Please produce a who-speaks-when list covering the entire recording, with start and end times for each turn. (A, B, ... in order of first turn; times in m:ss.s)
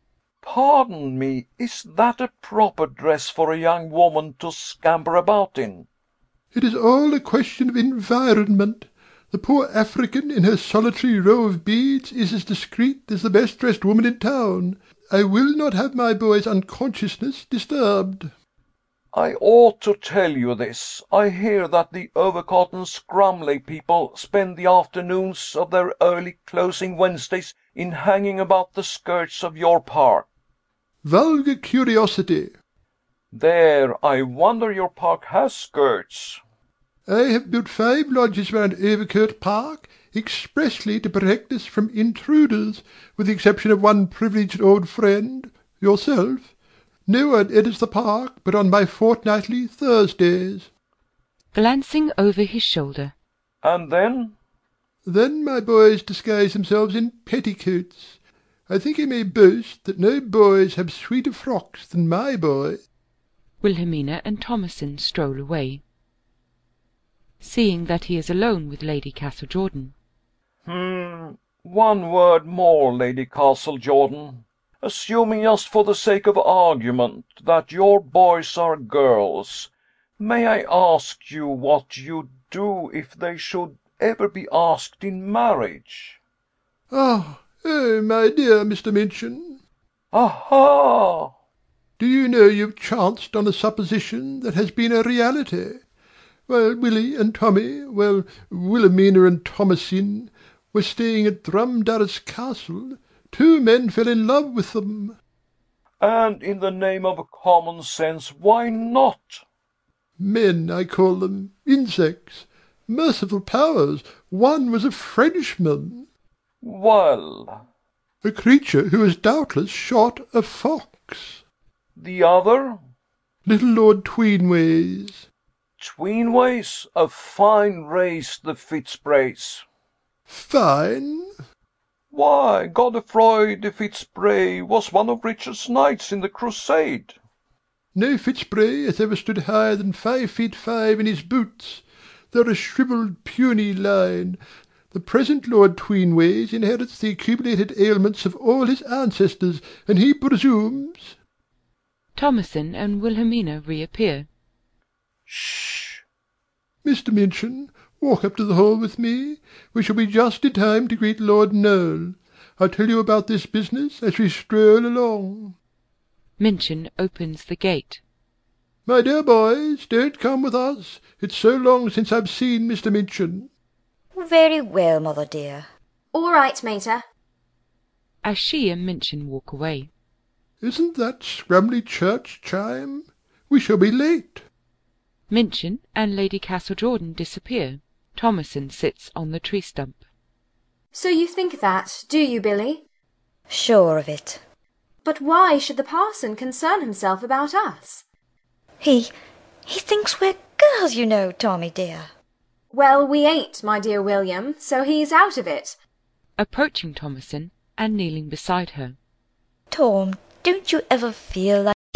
0:00.4-0:05.9 A
0:06.5-0:18.3 B
0:19.1-0:30.3 A
0:31.0-0:32.6 B
0:33.3-0:36.4 A
0:37.1-0:46.5 B
0:47.1-0:50.7 B
0:51.5-0:53.1 C
0:53.6-0:54.4 A
0:55.0-0:58.2 B
0:58.7-1:02.8 B
1:03.6-1:05.8 C
1:07.4-1:09.9 C
1:10.6-1:26.2 A
1:26.9-1:29.6 B
1:30.1-1:31.3 A
1:32.0-1:35.8 B
1:36.5-1:45.2 B
1:46.0-1:49.4 A
1:50.2-1:56.1 B
1:56.6-1:57.6 A
1:58.2-2:01.4 B
2:02.0-2:02.8 A
2:03.5-2:05.2 B
2:05.8-2:09.6 A
2:10.3-2:11.3 B
2:12.1-2:17.2 A
2:17.9-2:24.4 B
2:24.9-2:31.1 B
2:32.2-2:34.3 C
2:35.3-2:36.0 A
2:36.8-2:45.5 B
2:46.4-2:48.0 C
2:48.9-2:53.5 B
2:54.2-2:55.7 D
2:56.1-2:57.0 E
2:58.2-2:59.9 C
3:00.6-3:04.4 B
3:05.3-3:10.0 C
3:10.9-3:12.8 E
3:13.5-3:14.4 D
3:15.0-3:18.0 E
3:18.8-3:19.1 D
3:19.7-3:22.1 D
3:22.7-3:25.8 E
3:26.4-3:29.0 C
3:29.7-3:31.7 D